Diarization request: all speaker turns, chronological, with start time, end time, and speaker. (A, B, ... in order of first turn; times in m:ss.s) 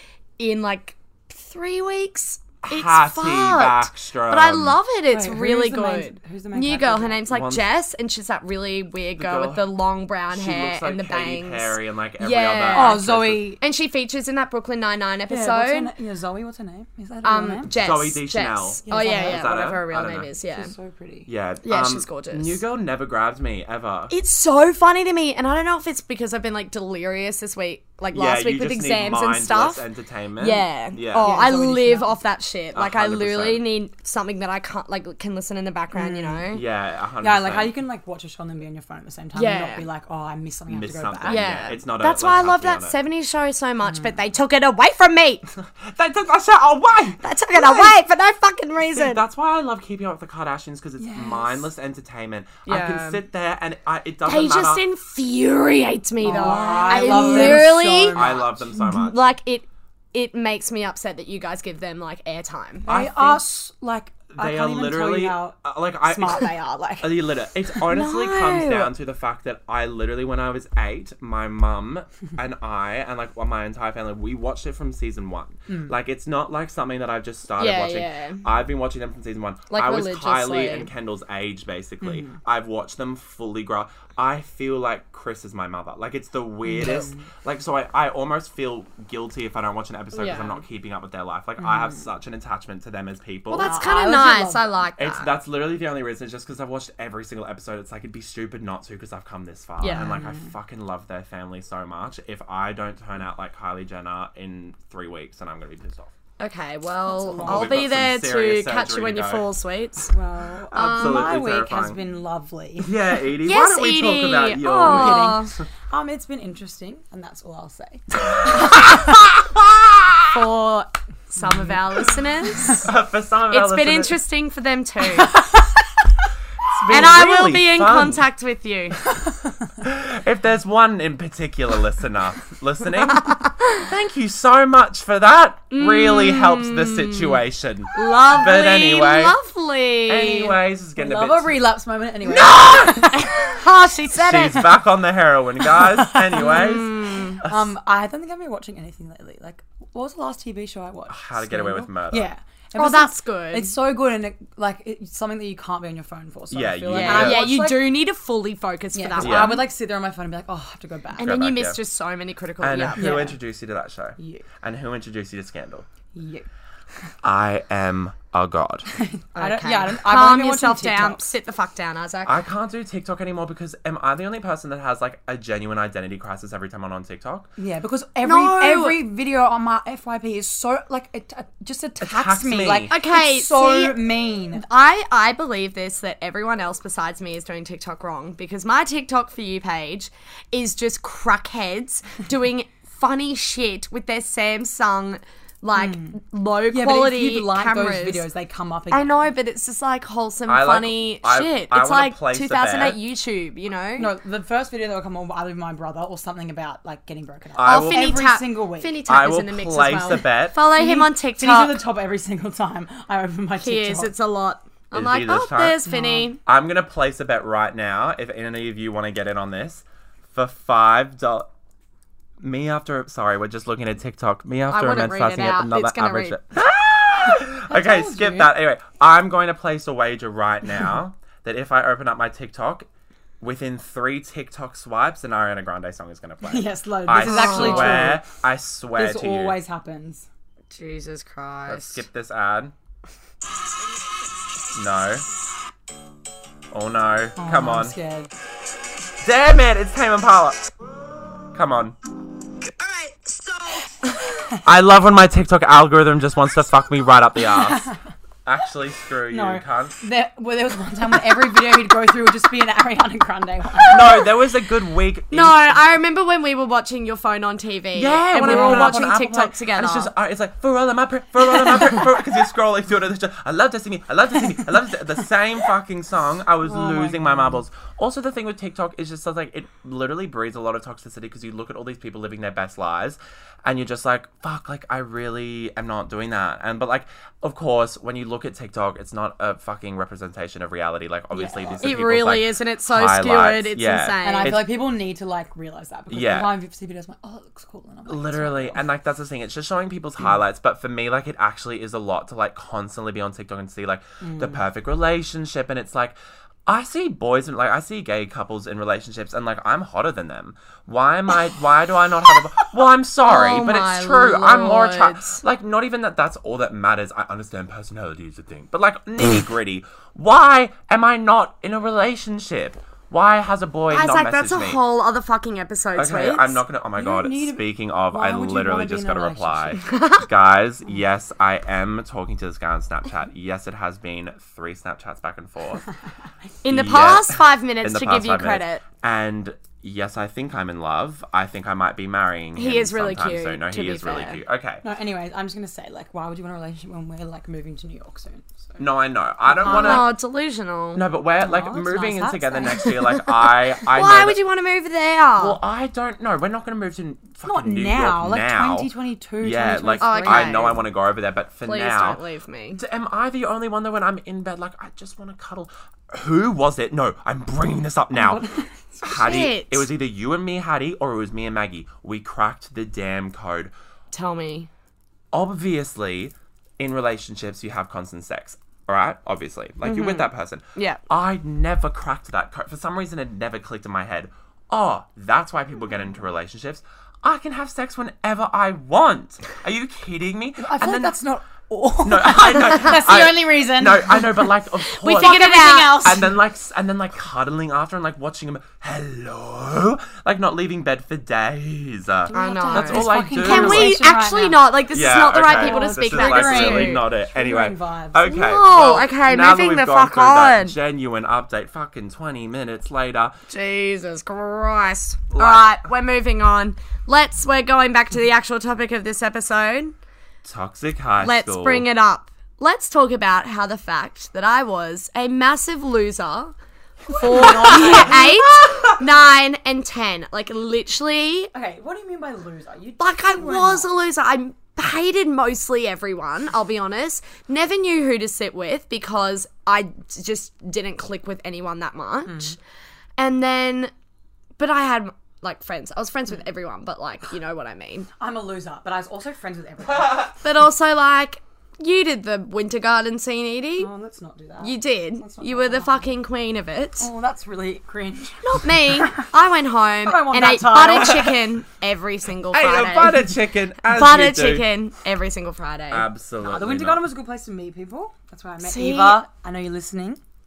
0:00.4-0:13.0 A
0:02.6-0:04.8 B
0:05.1-0:07.2 C
0:07.3-0:07.6 B
0:09.2-0:09.7 B
0:10.3-0:13.5 B
0:12.7-0:13.6 C
0:13.6-0:15.9 A
0:15.3-0:17.7 C
0:17.2-0:20.7 A
0:17.7-0:20.3 B
0:18.9-0:19.7 C
0:20.5-0:21.3 C
0:21.3-0:24.1 B
0:21.6-0:22.6 A
0:24.1-0:29.8 A
0:28.1-0:31.3 B
0:30.4-0:36.6 A
0:31.2-0:32.2 C
0:32.7-0:33.6 B
0:35.9-0:36.5 C
0:36.5-0:37.8 B
0:37.2-0:41.6 C
0:39.3-0:39.9 A
0:40.7-0:42.9 B
0:41.2-0:45.4 A
0:43.8-0:44.2 C
0:45.6-0:47.9 B
0:47.2-0:49.2 A
0:48.9-0:54.8 B
0:51.0-0:51.7 C
0:52.6-0:53.2 A
0:54.2-0:58.2 A
0:56.2-0:58.9 C
0:56.3-0:59.2 B
0:58.8-1:02.9 A
1:02.8-1:07.2 C
1:02.9-1:03.4 B
1:04.3-1:33.8 B
1:07.8-1:08.9 A
1:15.7-1:15.9 C
1:17.6-1:18.4 A
1:19.7-1:20.9 A
1:22.0-1:22.4 C
1:26.6-1:27.2 C
1:30.1-1:30.6 A
1:31.6-1:32.0 C
1:33.5-1:35.3 A
1:33.6-1:34.8 C
1:35.0-1:46.1 B
1:39.8-1:40.1 A
1:39.9-1:40.5 C
1:46.4-1:50.1 A
1:47.1-1:48.0 C
1:47.4-1:49.4 B
1:50.1-1:53.0 C
1:50.7-1:52.0 B
1:50.7-1:51.3 A
1:52.8-1:55.5 B
1:53.4-1:55.5 A
1:54.8-1:58.9 C
1:58.2-2:00.4 B
2:00.3-2:02.9 A
2:01.4-2:01.8 C
2:02.7-2:04.2 B
2:03.5-2:05.4 A
2:05.1-2:05.6 C
2:06.7-2:08.2 B
2:06.9-2:09.0 A
2:09.8-2:19.4 B
2:13.1-2:13.8 A
2:15.7-2:17.4 A
2:17.9-2:20.5 A
2:20.1-2:21.6 B
2:21.0-2:23.6 C
2:22.3-2:24.8 A
2:22.4-2:23.2 B
2:24.1-2:27.7 B
2:25.8-2:26.9 C
2:26.3-2:27.4 A
2:27.4-2:37.9 C
2:31.1-2:32.3 B
2:32.7-2:33.7 A
2:36.5-2:37.5 B
2:36.9-2:39.7 A
2:38.9-2:41.3 C
2:39.2-2:39.7 B
2:41.2-2:41.8 B
2:41.2-2:43.3 A
2:42.6-2:45.8 B
2:43.0-2:43.4 C
2:44.2-2:44.4 C
2:46.1-2:46.5 C
2:47.2-2:48.9 B
2:48.9-2:51.3 C
2:49.4-2:52.4 A
2:52.2-2:57.5 B
2:57.6-3:04.6 C
2:58.2-2:59.0 A
3:02.0-3:02.9 B
3:02.9-3:04.0 A
3:04.5-3:18.2 A
3:15.7-3:16.2 C
3:16.7-3:19.3 C
3:18.9-3:24.1 A
3:20.5-3:23.0 B
3:24.0-3:29.0 C
3:27.5-3:28.2 B
3:27.6-3:31.8 A
3:29.1-3:30.6 B
3:30.7-3:34.1 C
3:33.6-3:36.4 A
3:34.9-3:35.8 B
3:35.8-3:36.3 C
3:36.4-3:41.5 B
3:42.4-3:52.9 B
3:44.7-3:46.4 A
3:47.2-3:48.5 C
3:53.4-3:59.6 B
3:56.4-3:58.2 C
3:57.2-3:58.2 A
3:58.9-4:00.3 C
4:00.7-4:02.0 A
4:01.7-4:02.7 B
4:04.7-4:05.2 B
4:06.7-4:07.9 B
4:07.4-4:08.3 C
4:09.2-4:10.6 B
4:11.5-4:12.0 B
4:14.6-4:17.9 B
4:17.4-4:18.0 C
4:18.4-4:20.0 B
4:19.3-4:24.3 C
4:23.9-4:25.8 B
4:23.9-4:24.2 A
4:25.3-4:30.1 A
4:27.9-4:54.6 B
4:28.4-4:29.2 C
4:36.6-4:37.6 C
4:51.3-4:52.0 C
4:51.8-4:54.6 A
4:54.2-4:58.8 C
4:56.1-4:56.5 B
4:58.1-5:06.2 B
5:04.2-5:04.6 C
5:06.7-5:24.8 B
5:13.2-5:15.4 A
5:23.9-5:26.6 A
5:26.0-5:35.8 B
5:27.0-5:29.8 C
5:29.9-5:30.2 A
5:36.6-5:38.8 A
5:36.6-5:44.8 B
5:42.6-5:44.4 A
5:44.8-5:48.8 C
5:48.8-5:50.1 B
5:49.4-5:50.1 C
5:49.6-5:51.0 A
5:50.9-5:54.4 B
5:51.4-5:53.0 C
5:53.4-5:55.6 A
5:55.4-6:02.2 B
5:57.4-6:00.8 C
6:00.0-6:00.8 A
6:01.6-6:02.8 A
6:02.7-6:08.4 B
6:08.1-6:09.4 C
6:09.0-6:13.7 B
6:09.0-6:09.8 A
6:14.1-6:14.7 A
6:15.3-6:31.2 B
6:19.8-6:21.0 A
6:30.6-6:36.4 C
6:32.0-6:44.0 B
6:35.0-6:36.2 A
6:42.3-6:44.8 C
6:42.3-6:47.1 A
6:44.9-6:53.4 B
6:45.4-6:48.3 C
6:48.3-6:50.8 A
6:53.5-6:59.9 A
6:55.3-6:55.8 B
7:00.4-7:01.8 B
7:01.2-7:06.5 A
7:07.1-7:11.5 A
7:07.1-7:08.4 C
7:07.4-7:09.0 B
7:11.5-7:13.9 C
7:13.0-7:22.6 A
7:22.2-7:22.6 C
7:23.2-7:23.9 A
7:24.6-7:28.1 A
7:28.2-7:30.4 C
7:30.4-7:33.9 A
7:33.8-7:36.1 C
7:34.6-7:37.1 A
7:37.0-7:39.3 C
7:38.4-7:46.1 A
7:40.0-7:41.4 C
7:41.0-7:41.3 B
7:42.5-7:44.6 B
7:45.9-7:47.0 B
7:46.4-7:50.2 C
7:48.6-7:49.2 A